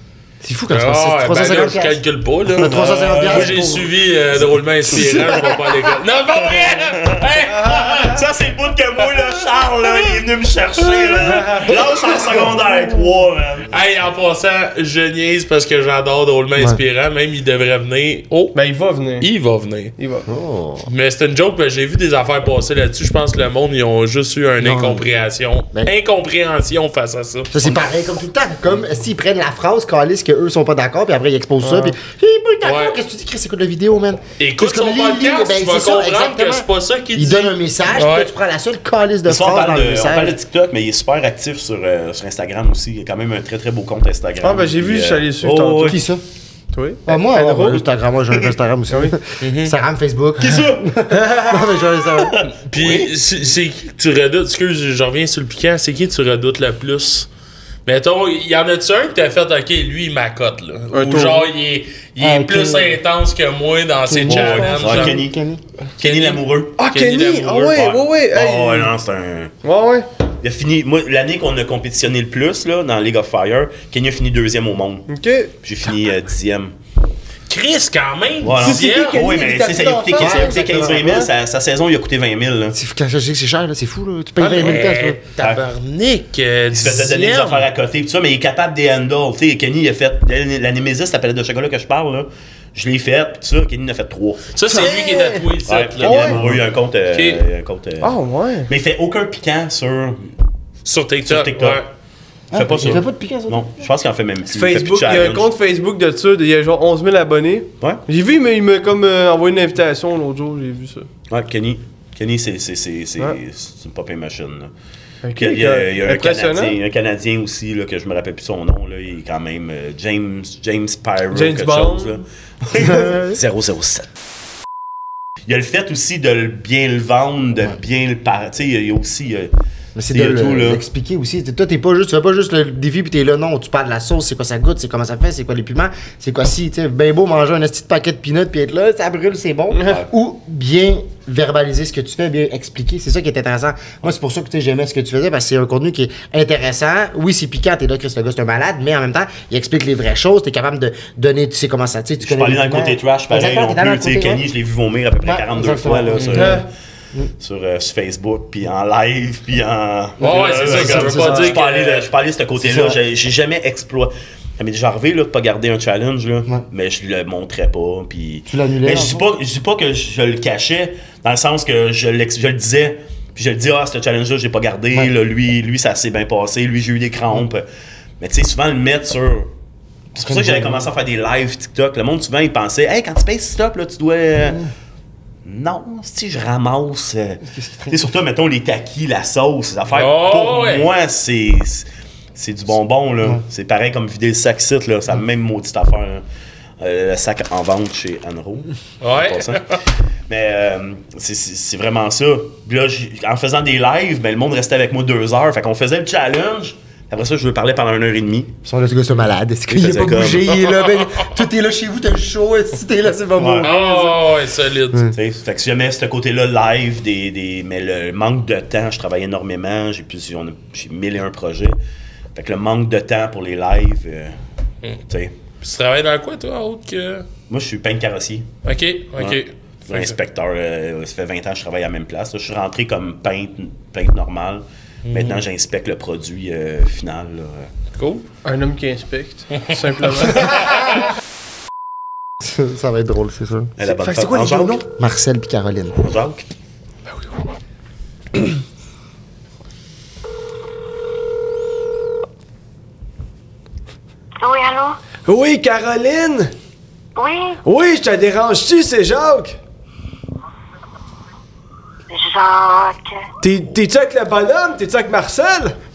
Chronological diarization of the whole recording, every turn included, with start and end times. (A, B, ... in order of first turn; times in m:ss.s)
0:00.4-0:03.9 A
0:00.7-0:08.2 B
0:02.6-0:03.8 C
0:04.9-0:05.6 A
0:04.9-0:05.5 C
0:06.4-0:13.8 C
0:07.5-0:08.1 D
0:13.7-0:18.5 B
0:16.6-0:16.8 A
0:18.5-0:19.2 D
0:19.2-0:19.9 B
0:20.0-0:20.3 D
0:20.3-0:20.9 A
0:20.8-0:27.5 B
0:24.6-0:25.1 A
0:27.5-0:40.4 A
0:31.6-0:31.9 D
0:32.6-0:32.9 B
0:34.4-0:38.3 B
0:39.3-0:46.0 C
0:44.4-0:46.0 D
0:45.8-0:46.2 A
0:46.7-0:47.8 D
0:47.0-0:52.4 A
0:49.4-0:49.7 B
0:50.4-0:50.8 C
0:51.1-0:51.6 D
0:52.4-0:53.1 C
0:52.6-0:57.3 B
0:57.8-1:05.2 B
1:00.9-1:01.5 D
1:02.2-1:03.0 A
1:04.1-1:05.6 A
1:04.3-1:05.4 C
1:06.0-1:06.8 C
1:06.0-1:07.8 B
1:06.8-1:08.9 D
1:07.7-1:09.5 C
1:09.6-1:10.0 D
1:10.4-1:15.1 C
1:15.1-1:15.5 D
1:15.6-1:16.7 C
1:17.5-1:19.2 B
1:18.4-1:22.8 C
1:18.6-1:21.3 D
1:20.2-1:21.1 A
1:22.7-1:25.4 A
1:24.4-1:27.7 B
1:25.4-1:25.6 C
1:26.7-1:35.0 C
1:34.5-1:36.6 B
1:34.7-1:35.4 D
1:35.6-1:38.1 C
1:36.0-1:36.3 D
1:37.1-1:37.4 B
1:38.0-1:38.7 D
1:38.7-1:40.3 C
1:40.8-1:41.8 B
1:41.2-1:41.8 C
1:42.5-1:43.7 A
1:42.5-1:45.5 C
1:44.5-1:51.1 D
1:51.3-1:54.7 C
1:55.2-1:56.8 D
1:55.4-2:04.1 C
2:01.3-2:02.2 D
2:02.8-2:03.4 A
2:05.5-2:09.5 C
2:10.0-2:34.4 A
2:10.1-2:10.8 C
2:32.2-2:36.7 C
2:35.2-2:36.6 A
2:36.1-2:36.5 B
2:36.3-2:36.6 D
2:37.4-2:57.6 C
2:40.2-2:41.4 A
2:40.2-2:42.1 B
2:40.7-2:41.4 D
2:42.6-2:43.0 A
2:48.5-2:49.2 A
2:58.2-2:59.5 C
3:00.1-3:04.6 C
3:00.2-3:00.8 A
3:05.4-3:16.2 C
3:07.5-3:08.0 A
3:09.9-3:10.8 B
3:16.8-3:19.7 C
3:19.0-3:19.7 B
3:20.3-3:28.5 C
3:28.6-3:34.3 A
3:29.7-3:30.5 C
3:33.4-3:33.7 C
3:33.6-3:35.1 B
3:35.1-3:41.8 C
3:42.3-3:44.4 C
3:45.6-3:47.2 B
3:47.5-3:48.5 C
3:48.6-3:50.1 B
3:49.2-3:57.7 C
3:55.0-3:55.4 B
3:58.0-3:58.2 B
3:58.4-4:00.4 D
4:02.4-4:03.7 A
4:03.8-4:04.8 C
4:03.8-4:04.8 D
4:05.0-4:06.1 A
4:06.0-4:06.4 C
4:14.4-4:15.0 E
4:15.2-4:16.5 D
4:17.2-4:17.6 E
4:17.6-4:19.6 D
4:22.1-4:23.2 E
4:23.4-4:25.8 D